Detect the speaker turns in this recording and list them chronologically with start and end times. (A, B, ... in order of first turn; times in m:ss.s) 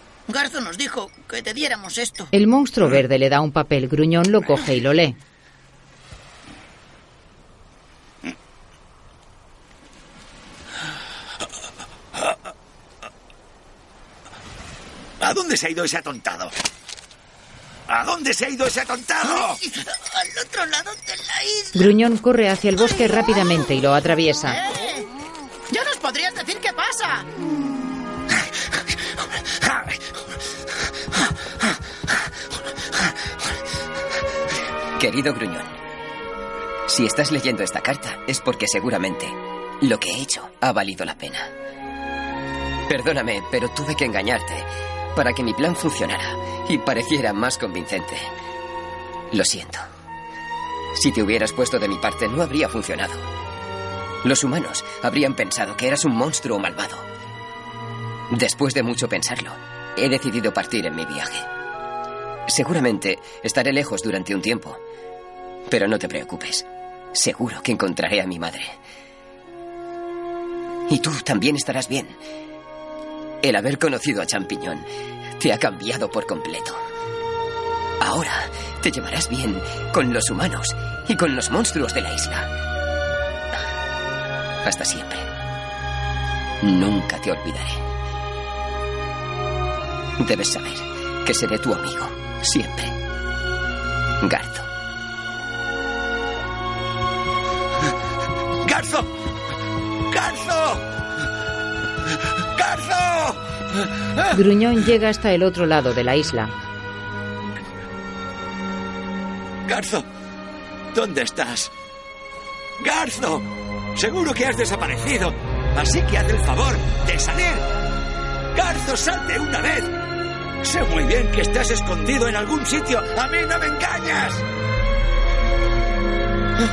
0:00.3-0:02.3 A
0:02.3-0:05.2 B
0:15.2-0:16.5 C
0:17.9-0:19.6 C
0:19.4-0:21.7 A
0:21.7-0:24.6 B
0:24.5-0:25.1 A
0:25.7-0:27.3 A
0:35.0-0:35.7 D
0:36.9-0:41.5 D
0:42.9-0:48.3 D
0:49.3-0:49.8 D
0:50.9-0:53.2 D
0:54.2-0:57.0 D
0:58.3-1:01.5 D
1:02.5-1:04.8 D
1:05.7-1:08.7 D
1:10.9-1:12.2 D
1:13.4-1:14.8 D
1:15.4-1:16.8 D
1:18.0-1:22.5 D
1:24.6-1:25.3 D
1:26.6-1:27.8 D
1:30.2-1:32.9 D
1:34.2-1:34.7 D
1:38.6-1:39.1 C
1:40.1-1:40.9 C
1:42.4-1:43.8 C
1:44.3-1:46.5 B
1:49.6-1:50.1 C
1:50.9-1:51.7 C
1:52.8-1:57.6 C
1:58.5-2:00.0 C
2:00.6-2:04.4 C